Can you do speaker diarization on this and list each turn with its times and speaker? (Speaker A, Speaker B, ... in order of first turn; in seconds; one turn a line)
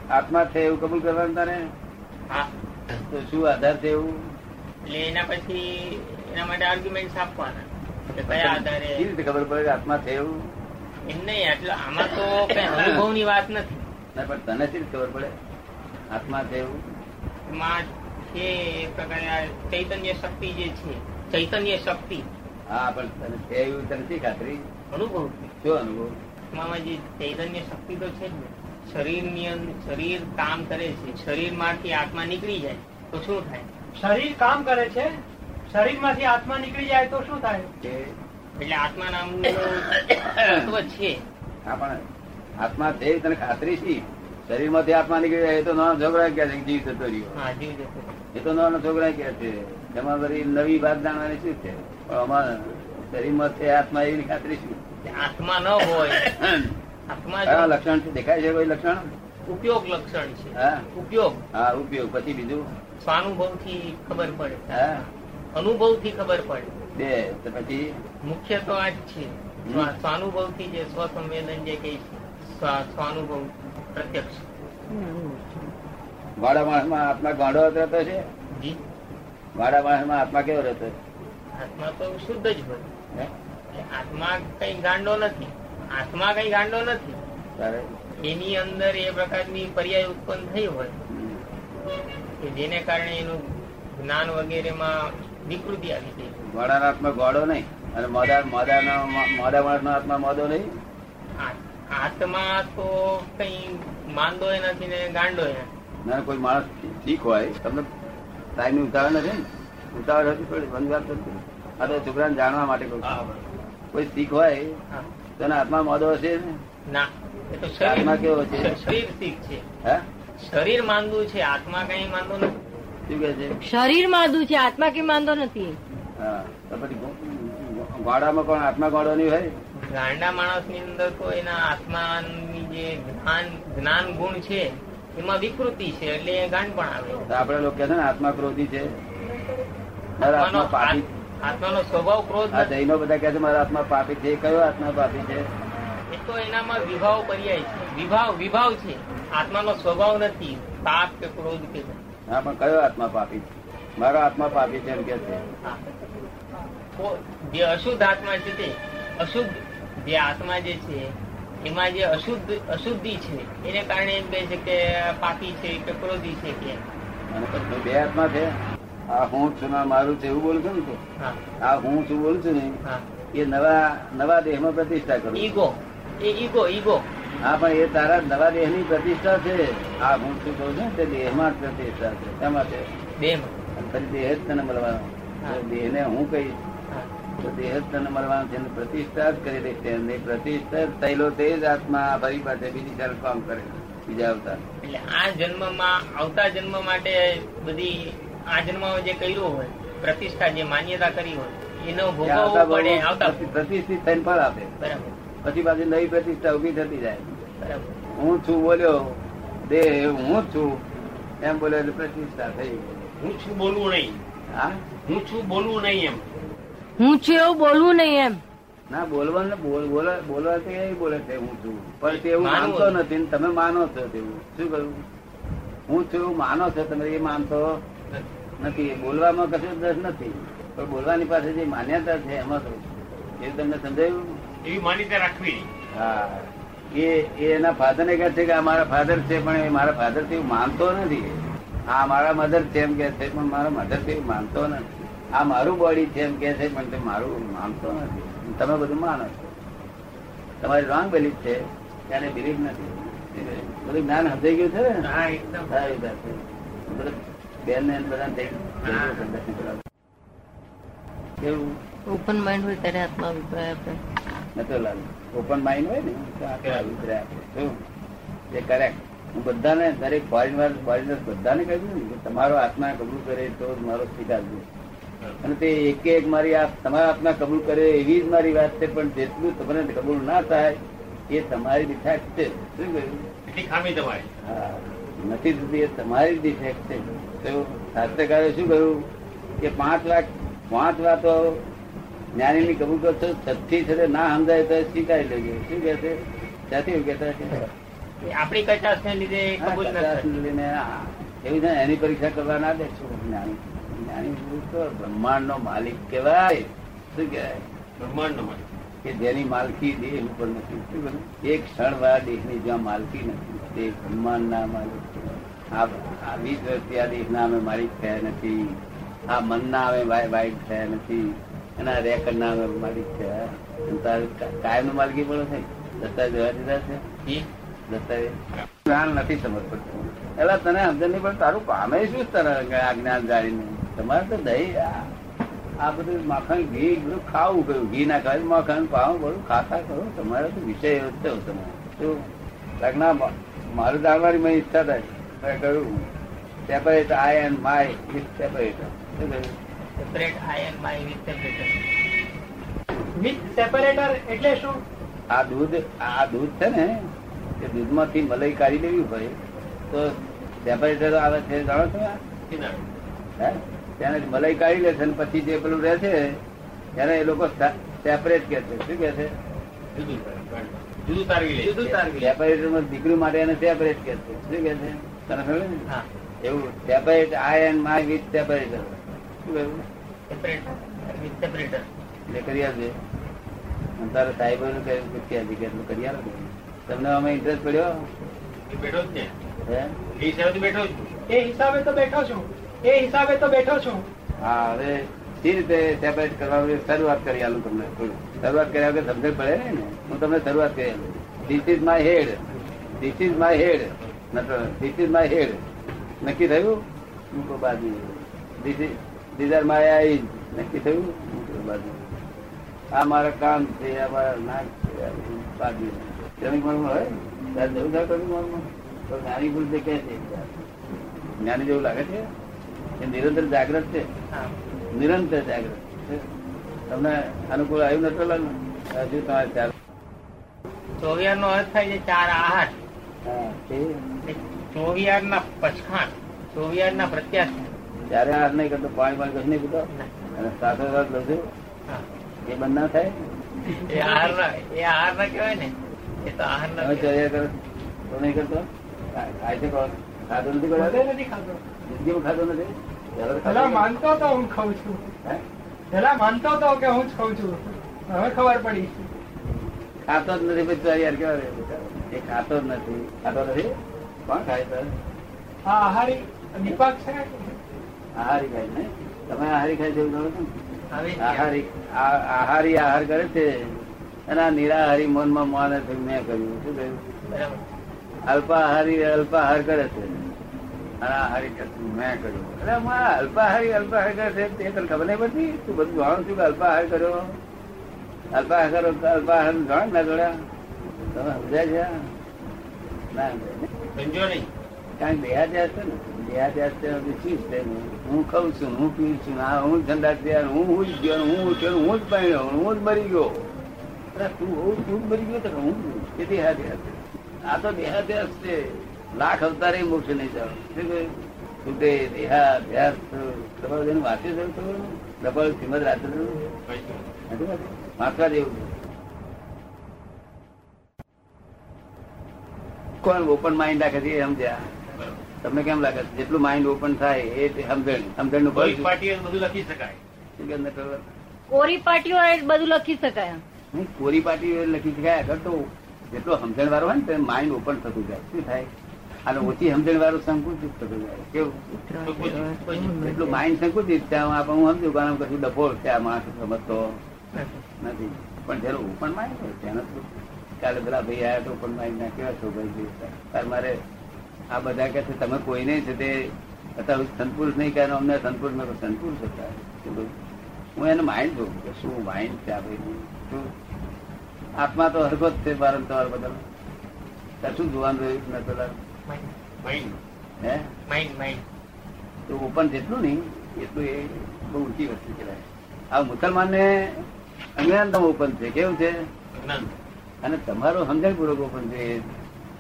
Speaker A: 0.1-1.6
Speaker A: 3.0-4.1
Speaker B: 4.8-9.1
Speaker A: 8.2-10.4
Speaker B: 11.1-13.9
Speaker A: 12.5-13.0
Speaker A: 14.2-15.3
Speaker A: 16.1-16.8
Speaker B: 17.5-22.3
Speaker A: 22.7-24.6
Speaker B: 24.9-25.5
Speaker A: 25.6-26.1
Speaker B: 26.5-33.7
Speaker C: 34.0-35.1
Speaker C: 35.7-37.7
Speaker A: 37.8-38.1
Speaker B: 38.6-41.2
Speaker A: 39.6-40.7
Speaker A: 41.7-42.0
Speaker A: 42.6-47.4
Speaker B: 47.4-48.1
Speaker A: 48.3-54.8
Speaker B: 55.0-56.3
Speaker A: 55.9-56.8
Speaker B: 57.1-57.8
Speaker A: 57.5-59.1
Speaker B: 59.5-61.4
Speaker A: 60.6-60.9
Speaker A: 61.5-62.7
Speaker B: 63.0-66.7
Speaker A: 64.7-65.0
Speaker A: 67.0-67.9
Speaker B: 68.2-74.5
Speaker A: 69.7-69.9
Speaker A: 76.4-78.2
Speaker B: 78.5-78.8
Speaker A: 79.5-81.0
Speaker B: 81.5-82.9
Speaker B: 83.7-87.2
Speaker A: 87.6-87.9
Speaker B: 88.2-91.0
Speaker A: 91.1-91.4
Speaker B: 92.4-93.4
Speaker B: 93.9-96.4
Speaker A: 96.5-100.7
Speaker B: 101.4-105.7
Speaker A: 106.1-107.9
Speaker A: 108.6-113.2
Speaker D: 113.0-113.5
Speaker A: 113.9-114.7
Speaker A: 115.4-116.6
Speaker B: 116.9-119.6
Speaker A: 117.8-118.8
Speaker B: 120.4-122.5
Speaker A: 123.1-123.6
Speaker E: 123.6-125.8
Speaker A: 126.2-129.5
Speaker B: 129.8-137.3
Speaker A: 137.3-138.9
Speaker A: 140.2-141.1
Speaker B: 140.2-142.7
Speaker A: 142.5-145.4
Speaker B: 146.1-152.0
Speaker A: 152.3-155.4
Speaker B: 157.0-166.8
Speaker A: 167.3-168.5
Speaker A: 169.1-171.0
Speaker A: 171.6-172.8
Speaker A: 173.3-175.6
Speaker B: 175.3-177.1
Speaker A: 177.4-182.8
Speaker B: 183.2-183.6
Speaker A: 183.8-186.6
Speaker A: 187.4-194.7
Speaker B: 194.8-203.6
Speaker A: 202.2-204.7
Speaker B: 204.8-205.2
Speaker A: 205.4-207.4
Speaker B: 207.6-207.9
Speaker A: 208.2-210.8
Speaker A: 211.4-213.1
Speaker D: 213.2-214.2
Speaker A: 214.5-214.8
Speaker D: 215.1-216.3
Speaker E: 217.0-218.4
Speaker A: 218.9-225.0
Speaker B: 222.4-223.0
Speaker A: 225.9-227.8
Speaker A: 228.6-234.4
Speaker D: 234.6-235.7
Speaker A: 235.9-249.5
Speaker A: 250.6-255.0
Speaker B: 255.0-255.9
Speaker A: 255.7-259.8
Speaker B: 258.9-259.2
Speaker A: 261.4-261.8
Speaker E: 262.1-264.0
Speaker A: 264.6-267.8
Speaker D: 266.6-267.0
Speaker A: 268.5-274.7
Speaker A: 275.4-280.8
Speaker A: 281.3-283.3
Speaker D: 283.5-284.3
Speaker A: 284.4-289.1
Speaker A: 289.6-291.7
Speaker A: 292.4-296.2
Speaker A: 296.7-297.7
Speaker B: 298.2-300.4
Speaker A: 299.6-307.6
Speaker D: 308.0-308.6
Speaker A: 309.0-327.0
Speaker A: 327.9-335.1
Speaker A: 335.8-342.3
Speaker A: 342.8-346.1
Speaker A: 346.7-349.6
Speaker B: 350.0-351.9
Speaker C: 353.2-354.8
Speaker A: 355.3-357.1
Speaker A: 357.6-359.3
Speaker A: 359.9-362.2
Speaker D: 362.5-362.9
Speaker A: 363.4-366.4
Speaker A: 367.0-369.3
Speaker D: 369.9-372.3
Speaker A: 371.6-375.9
Speaker A: 376.4-379.9
Speaker B: 380.3-381.9
Speaker A: 382.3-382.9
Speaker A: 384.0-388.1
Speaker D: 388.7-389.3
Speaker A: 389.7-390.0
Speaker D: 390.2-391.1
Speaker C: 391.3-394.0
Speaker A: 394.4-402.5
Speaker A: 403.0-405.6
Speaker A: 406.2-406.8
Speaker A: 407.3-412.1
Speaker A: 412.9-420.7
Speaker A: 421.4-422.2
Speaker A: 423.0-424.1
Speaker A: 425.0-426.3
Speaker A: 426.9-429.7
Speaker B: 431.0-432.8
Speaker A: 433.2-434.0
Speaker B: 434.2-437.7
Speaker A: 438.1-441.5
Speaker A: 442.5-443.1
Speaker B: 443.6-447.2
Speaker A: 446.8-451.1
Speaker C: 450.8-451.6
Speaker A: 451.9-453.9
Speaker C: 453.4-455.0
Speaker C: 455.9-459.1
Speaker A: 460.1-463.7
Speaker A: 464.3-464.9
Speaker C: 465.7-467.6
Speaker A: 468.2-470.5
Speaker B: 470.9-471.5
Speaker A: 471.2-477.0
Speaker B: 477.3-477.6
Speaker A: 478.3-480.3
Speaker A: 481.0-487.4
Speaker A: 488.3-490.3
Speaker A: 491.1-492.0
Speaker A: 493.1-493.7
Speaker D: 493.9-494.5
Speaker A: 495.0-503.5
Speaker A: 504.1-516.4
Speaker D: 516.7-517.1
Speaker A: 517.3-518.7
Speaker A: 523.0-524.7
Speaker A: 525.4-528.9
Speaker D: 528.5-530.0
Speaker A: 530.4-531.0
Speaker E: 531.5-533.4
Speaker A: 533.7-538.7
Speaker A: 539.3-541.6
Speaker E: 541.7-543.2
Speaker D: 542.0-542.5
Speaker B: 542.5-543.2
Speaker A: 543.0-547.0
Speaker B: 547.3-547.6
Speaker A: 547.8-553.8
Speaker A: 554.5-560.1
Speaker A: 560.8-563.5
Speaker A: 564.6-566.4
Speaker A: 567.4-568.8
Speaker B: 569.1-569.3
Speaker D: 569.6-570.0
Speaker A: 570.4-570.7
Speaker B: 570.9-571.4
Speaker A: 572.3-577.0
Speaker A: 577.6-579.0
Speaker D: 579.3-579.7
Speaker A: 580.2-582.1